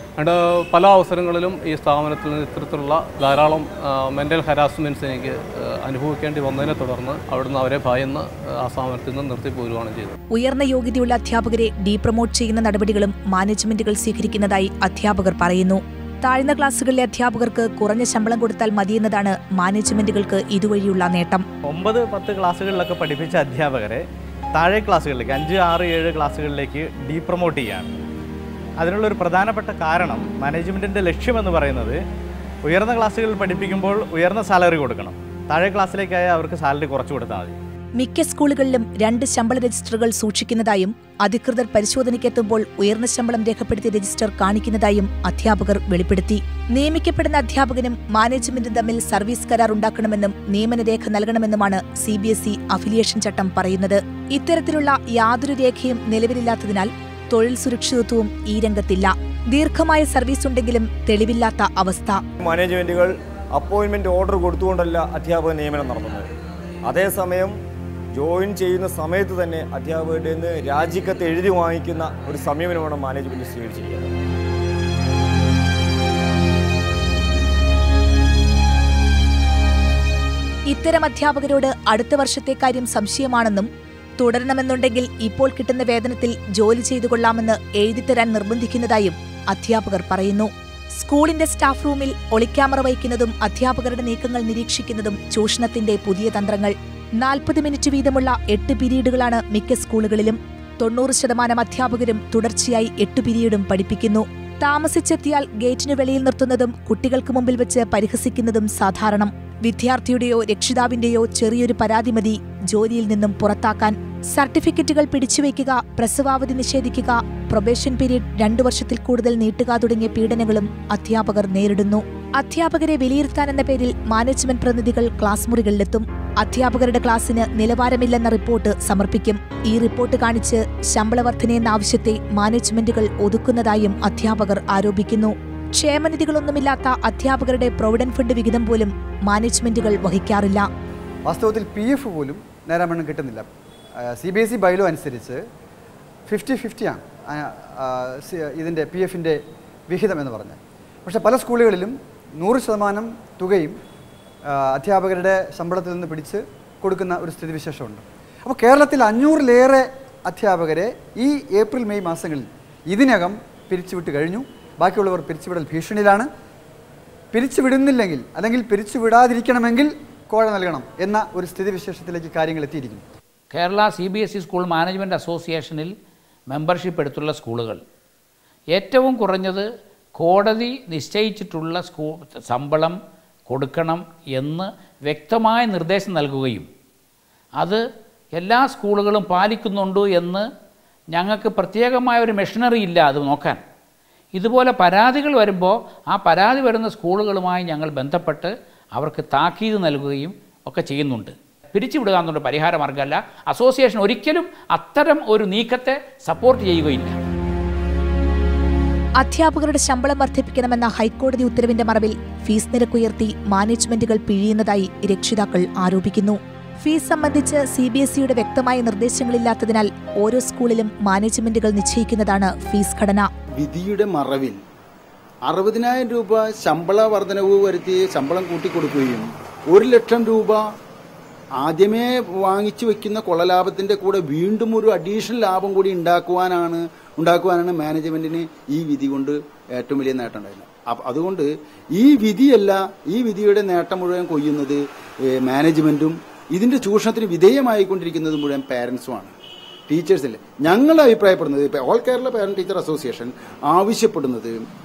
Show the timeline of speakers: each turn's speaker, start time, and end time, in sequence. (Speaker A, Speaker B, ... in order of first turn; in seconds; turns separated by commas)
Speaker A: 0.2-10.1, Speaker B: 10.3-21.4, Speaker C: 21.6-28.0, Speaker C: 28.8-32.0, Speaker C: 32.6-37.6, Speaker B: 38.0-62.2, Speaker D: 62.4-66.3, Speaker D: 66.8-67.6, Speaker D: 68.1-74.1, Speaker B: 80.7-83.7, Speaker B: 84.2-140.7, Speaker E: 141.2-143.5, Speaker E: 144.0-145.4, Speaker E: 146.3-153.8, Speaker E: 154.5-166.3, Speaker E: 167.3-173.0, Speaker F: 173.5-175.9, Speaker F: 176.5-177.8, Speaker F: 178.7-186.7, Speaker F: 188.3-190.5, Speaker F: 191.1-193.6, Speaker F: 194.3-207.2, Speaker B: 209.2-223.3, Speaker G: 223.6-224.6, Speaker G: 225.5-230.6, Speaker G: 231.6-244.8, Speaker G: 245.4-249.3, Speaker G: 249.9-254.5